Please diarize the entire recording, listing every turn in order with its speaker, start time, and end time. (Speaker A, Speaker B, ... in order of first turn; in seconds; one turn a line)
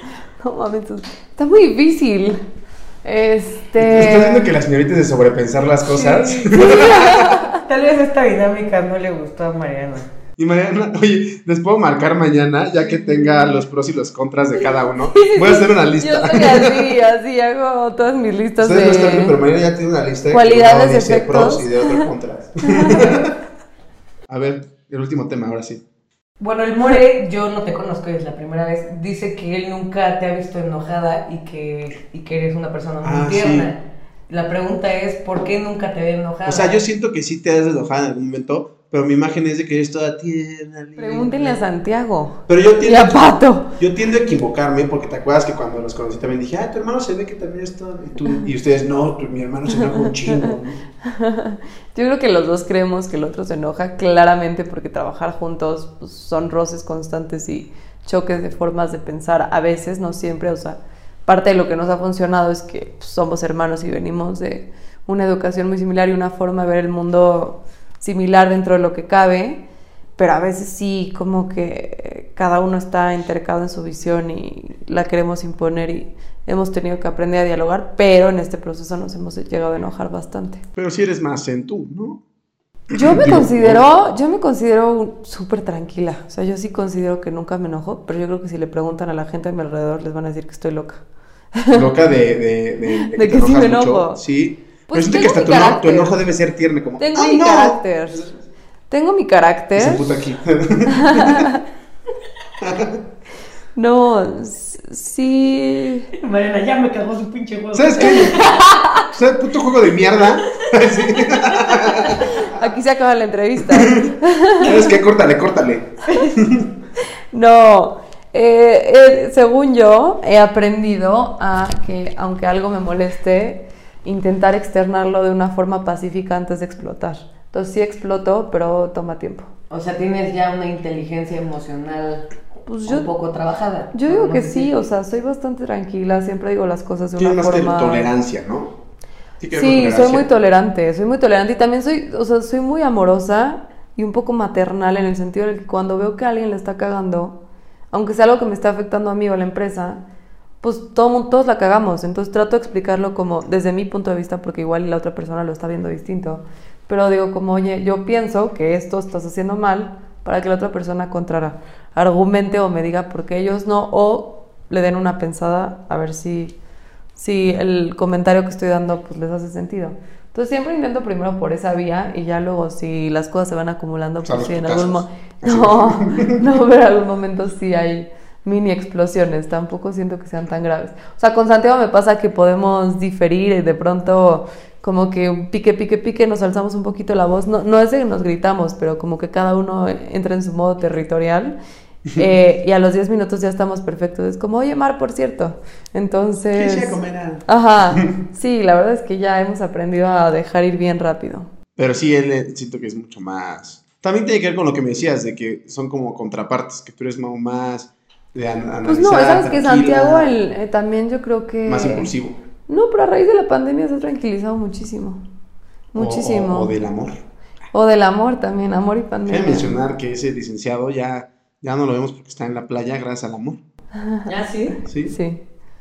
Speaker A: 0.4-2.4
Speaker A: 3.0-4.5
Speaker B: 3.8-7.1
Speaker C: 5.9-10.1
Speaker A: 6.5-7.6
Speaker B: 10.4-16.9
Speaker C: 15.2-15.6
Speaker A: 16.0-19.4
Speaker B: 18.6-23.4
Speaker A: 20.3-22.1
Speaker A: 22.6-23.3
Speaker B: 24.3-25.8
Speaker C: 26.4-36.8
Speaker B: 33.0-33.7
Speaker B: 36.5-41.6
Speaker A: 41.0-43.7
Speaker B: 42.5-50.8
Speaker A: 49.9-50.5
Speaker A: 51.1-69.6
Speaker A: 70.2-80.6
Speaker B: 80.8-82.2
Speaker B: 82.9-83.8
Speaker A: 82.9-91.0
Speaker A: 91.5-91.9
Speaker B: 91.7-98.4
Speaker A: 92.9-94.2
Speaker A: 94.9-96.2
Speaker A: 97.0-98.3
Speaker A: 98.9-100.0
Speaker B: 99.8-101.5
Speaker A: 100.9-101.6
Speaker B: 102.6-103.0
Speaker A: 103.8-106.1
Speaker C: 106.2-108.7
Speaker B: 107.7-108.4
Speaker A: 108.0-109.0
Speaker B: 109.1-112.3
Speaker C: 110.5-111.8
Speaker A: 112.0-114.8
Speaker B: 113.7-116.7
Speaker A: 116.1-116.4
Speaker A: 117.3-129.5
Speaker C: 129.7-132.3
Speaker A: 132.7-133.1
Speaker C: 132.8-134.7
Speaker A: 133.9-138.1
Speaker B: 137.2-138.8
Speaker B: 139.4-140.3
Speaker A: 139.5-150.0
Speaker A: 150.6-166.6
Speaker A: 167.2-191.6
Speaker B: 174.2-176.4
Speaker A: 192.1-201.5
Speaker B: 196.6-198.1
Speaker B: 201.8-210.3
Speaker A: 208.8-212.1
Speaker B: 211.7-212.4
Speaker A: 212.7-215.2
Speaker A: 215.9-216.8
Speaker B: 216.0-217.2
Speaker A: 217.7-219.8
Speaker B: 219.3-223.6
Speaker A: 224.0-224.3
Speaker C: 224.3-224.8
Speaker B: 224.9-225.2
Speaker A: 225.1-225.4